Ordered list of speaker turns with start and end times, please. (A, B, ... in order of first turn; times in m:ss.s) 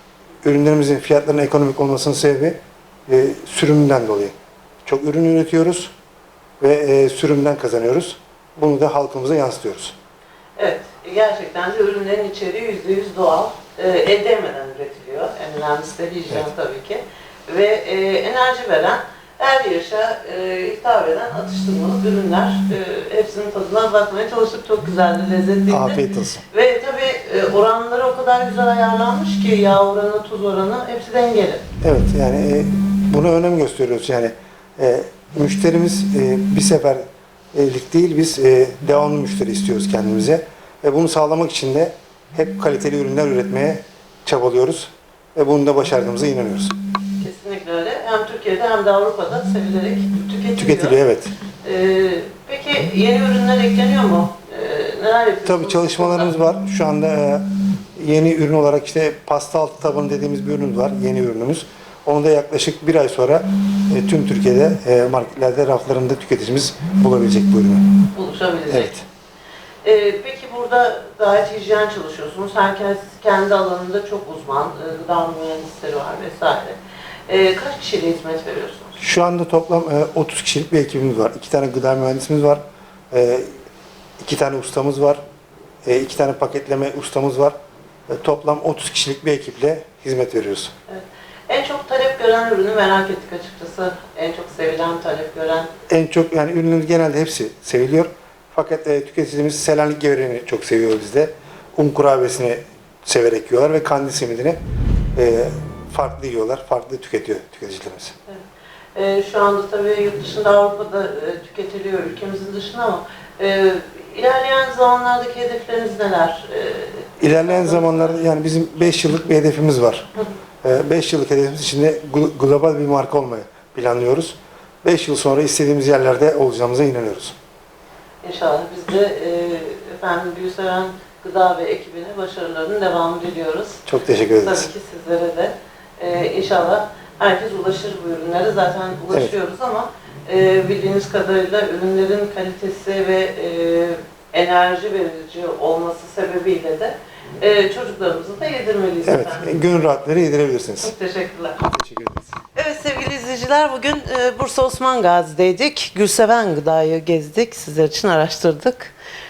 0:00.4-0:04.3 A
0:04.9-0:05.9 A
0:06.6-0:10.0 A
0:10.6-0:31.6 B
0:25.7-0:26.4 A
0:31.8-0:46.8 A
0:47.2-0:51.0 B
0:50.6-0:51.4 A
0:51.6-0:56.4 B
0:55.4-1:08.1 A
1:08.1-1:08.9 B
1:08.7-1:09.0 A
1:09.8-1:16.8 B
1:17.3-1:19.0 B
1:19.0-1:23.5 A
1:24.2-1:25.2 A
1:25.8-1:27.6 A
1:28.1-1:30.7 A
1:30.9-1:35.7 B
1:35.9-1:44.6 A
1:45.2-1:48.1 A
1:48.9-1:58.3 B
1:57.2-2:00.1 A
2:00.6-2:07.4 A
2:08.2-2:13.8 B
2:13.9-2:14.7 A
2:14.4-2:29.6 B
2:29.0-2:30.9 A
2:30.8-2:31.7 B
2:31.7-2:32.4 A
2:32.6-2:39.0 B